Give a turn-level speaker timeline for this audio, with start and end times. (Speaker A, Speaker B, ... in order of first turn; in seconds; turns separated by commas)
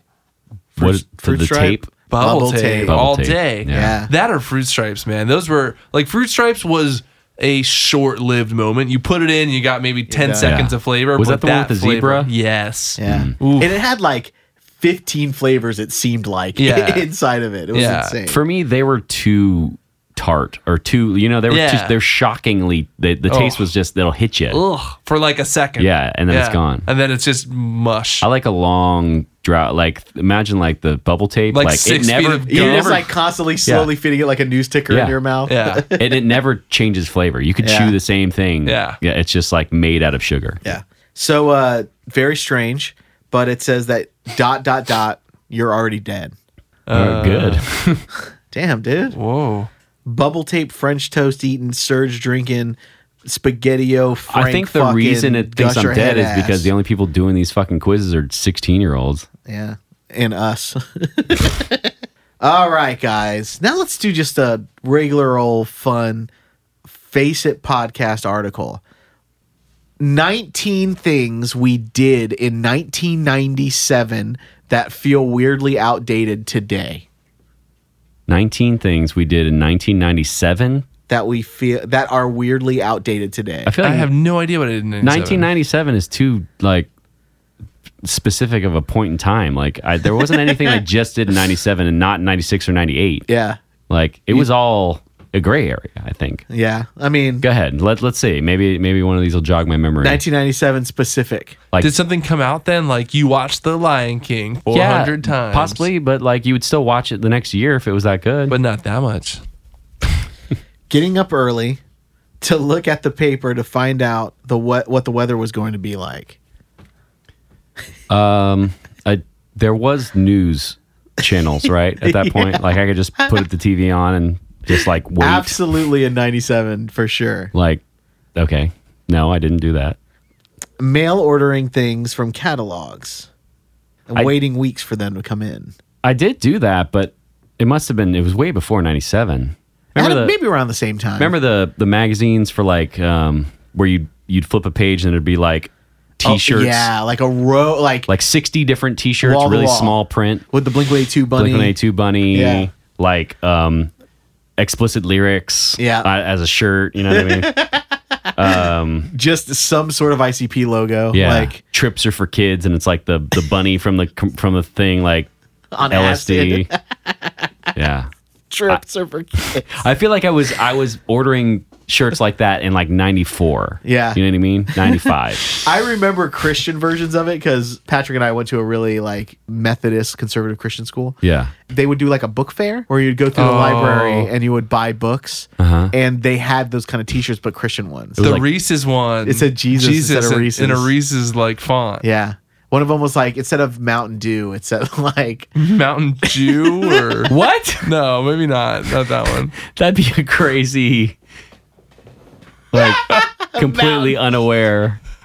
Speaker A: 0.8-3.0, Speaker B: 0.8-1.9, Speaker C: 2.1-13.8, Speaker B: 2.9-4.0, Speaker A: 3.7-4.1, Speaker A: 10.1-10.6, Speaker B: 10.4-12.3, Speaker A: 13.0-18.4, Speaker B: 13.1-13.4, Speaker C: 16.6-17.1, Speaker C: 17.7-18.2, Speaker B: 18.3-24.6, Speaker C: 21.5-22.0, Speaker C: 23.3-23.7, Speaker C: 24.5-28.2, Speaker B: 25.8-26.9, Speaker B: 28.2-33.1, Speaker C: 31.5-33.1, Speaker A: 32.5-36.2, Speaker B: 33.6-33.9, Speaker B: 34.9-35.2, Speaker C: 35.5-35.9, Speaker B: 35.9-40.6, Speaker A: 37.6-38.0, Speaker C: 38.6-39.0, Speaker A: 40.6-46.3, Speaker C: 46.9-47.6, Speaker B: 46.9-48.0, Speaker A: 48.5-49.2, Speaker C: 49.1-49.7, Speaker A: 50.1-56.7, Speaker B: 54.3-59.3, Speaker A: 59.5-66.3, Speaker A: 66.9-68.8, Speaker A: 70.0-77.0, Speaker B: 78.3-80.9, Speaker A: 81.1-83.7, Speaker B: 83.7-84.1, Speaker C: 83.8-85.5, Speaker B: 85.0-86.9, Speaker B: 88.0-93.3, Speaker A: 90.3-90.8, Speaker A: 93.3-93.6, Speaker B: 93.9-96.4, Speaker A: 96.5-97.5, Speaker B: 97.4-100.2, Speaker A: 100.0-101.6, Speaker C: 101.8-105.8, Speaker B: 104.7-108.6, Speaker C: 108.5-109.4, Speaker A: 110.9-111.8, Speaker A: 112.4-116.4, Speaker B: 118.1-125.7, Speaker A: 122.0-123.4, Speaker A: 124.7-127.5, Speaker B: 127.5-127.8, Speaker B: 128.4-130.0, Speaker A: 130.8-133.3, Speaker A: 134.1-135.7, Speaker B: 136.0-140.3, Speaker A: 140.0-141.3, Speaker B: 141.2-146.9, Speaker A: 146.2-148.1, Speaker B: 148.1-150.4, Speaker A: 149.2-150.0, Speaker A: 150.5-151.8, Speaker B: 151.3-153.9, Speaker A: 152.3-152.7, Speaker B: 154.6-157.6, Speaker A: 155.8-156.1, Speaker A: 157.1-158.0, Speaker B: 158.4-159.1, Speaker A: 159.1-161.6, Speaker B: 161.1-165.3, Speaker A: 165.7-167.3, Speaker B: 165.9-166.7, Speaker B: 167.8-168.1, Speaker A: 168.5-169.8, Speaker B: 169.4-175.6, Speaker A: 173.8-174.2, Speaker A: 174.7-188.4, Speaker B: 181.2-181.5, Speaker C: 183.3-184.3, Speaker B: 185.6-185.9, Speaker B: 188.2-188.5, Speaker C: 188.2-192.1, Speaker A: 189.2-190.9, Speaker A: 192.0-195.6, Speaker C: 195.6-199.6, Speaker A: 196.3-197.3, Speaker B: 197.3-197.9, Speaker B: 199.7-201.2, Speaker A: 202.7-204.2, Speaker B: 203.6-205.0